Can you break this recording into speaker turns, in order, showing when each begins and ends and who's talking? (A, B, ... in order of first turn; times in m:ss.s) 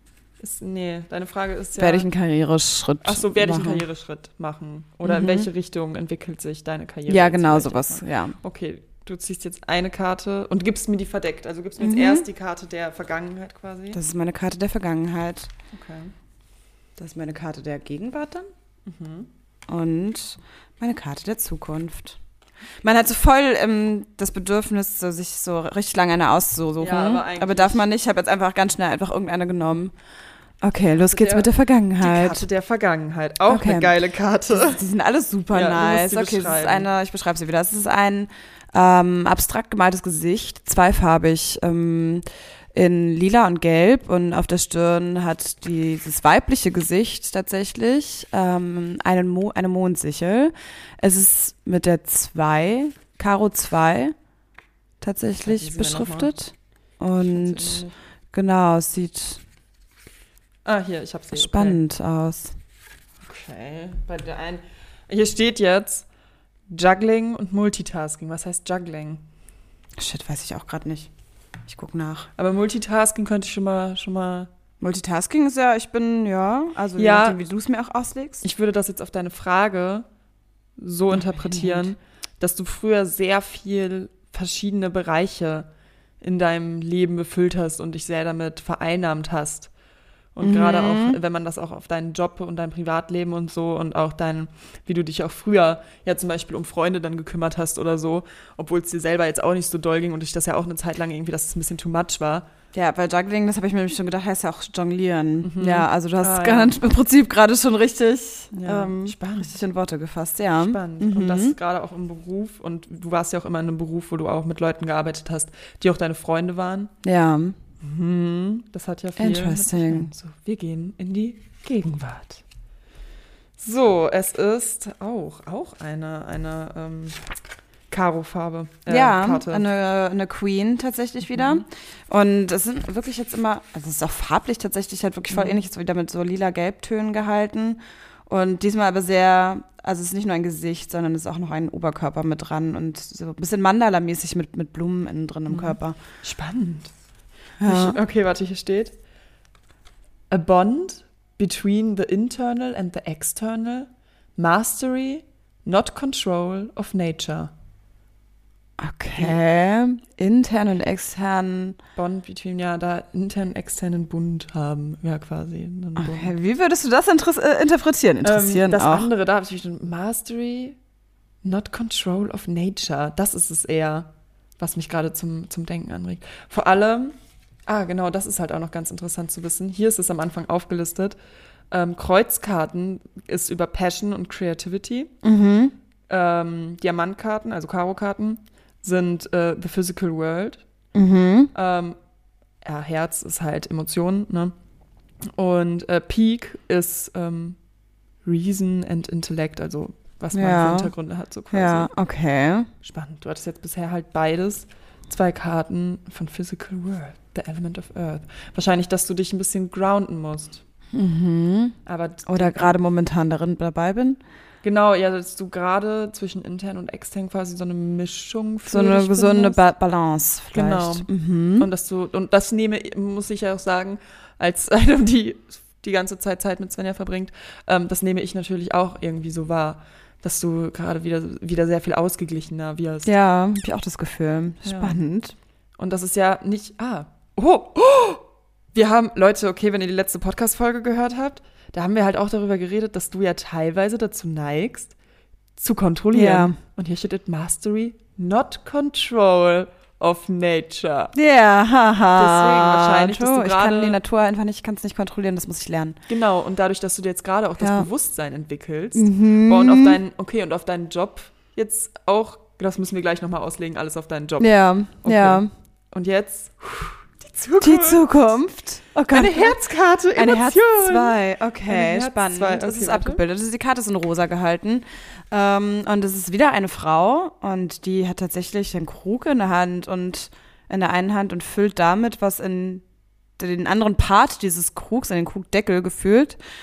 0:00.4-0:02.1 A
0:01.8-0:03.8 B
0:03.0-0:14.0 A
0:05.0-0:05.5 B
0:07.1-0:08.4 B
0:11.8-0:12.2 B
0:13.9-0:15.5 B
0:15.7-0:16.1 A
0:17.0-0:18.5 B
0:18.8-0:19.3 A
0:19.7-0:22.2 B
0:22.8-0:29.9 B
0:26.8-0:27.8 A
0:30.6-0:32.4 B
0:31.0-0:34.8 A
0:33.5-0:33.9 B
0:34.5-0:54.1 B
0:35.5-0:36.9 A
0:55.0-0:59.4 B
0:55.4-0:56.3 A
0:57.3-0:57.9 A
1:00.6-1:01.8 A
1:01.3-1:02.5 B
1:03.2-1:06.0 A
1:06.7-1:09.2 A
1:10.0-1:11.1 B
1:11.7-1:12.3 B
1:12.4-1:14.5 A
1:14.8-1:18.4 B
1:17.0-1:17.4 A
1:18.4-1:20.1 A
1:20.8-1:25.7 A
1:21.1-1:21.9 B
1:26.2-1:29.7 A
1:30.3-1:42.5 A
1:30.4-1:31.2 B
1:42.7-1:51.6 B
1:45.4-1:46.8 A
1:48.5-1:49.5 A
1:50.6-1:56.9 A
1:57.0-1:57.6 B
1:57.8-2:02.4 A
1:59.2-2:00.1 B
2:03.6-2:07.2 A
2:07.9-2:09.6 A
2:08.9-2:26.0 B
2:11.3-2:11.6 A
2:15.3-2:15.6 A
2:25.5-2:26.9 A
2:27.6-2:28.0 B
2:27.6-2:28.9 A
2:30.3-2:37.5 A
2:38.8-2:41.8 B
2:42.0-2:46.3 A
2:46.0-2:49.1 B
2:48.2-2:50.8 A
2:51.4-3:01.2 A
3:01.7-3:05.1 A
3:05.2-3:05.7 B
3:06.1-3:10.6 A
3:10.9-3:11.5 B
3:11.5-3:12.0 A
3:12.6-3:14.5 A
3:15.3-3:17.6 A
3:18.2-3:21.9 A
3:20.3-3:20.9 B
3:21.5-3:22.7 B
3:22.8-3:30.6 A
3:30.9-3:34.2 B
3:31.8-3:32.8 A
3:34.6-3:39.6 A
3:38.7-3:41.7 B
3:40.5-3:41.1 A
3:41.6-3:53.1 A
3:53.0-3:55.3 B
3:54.6-3:55.0 A
3:55.8-4:04.9 A
4:05.6-4:11.1 A
4:06.1-4:06.6 B
4:11.1-4:16.0 B
4:12.1-4:14.0 A
4:16.1-4:24.5 A
4:17.6-4:17.9 B
4:18.9-4:20.0 B
4:24.4-4:25.5 B
4:25.0-4:28.1 A
4:27.6-4:29.6 B
4:29.1-4:33.2 A
4:30.1-4:42.8 B
4:43.4-4:46.4 B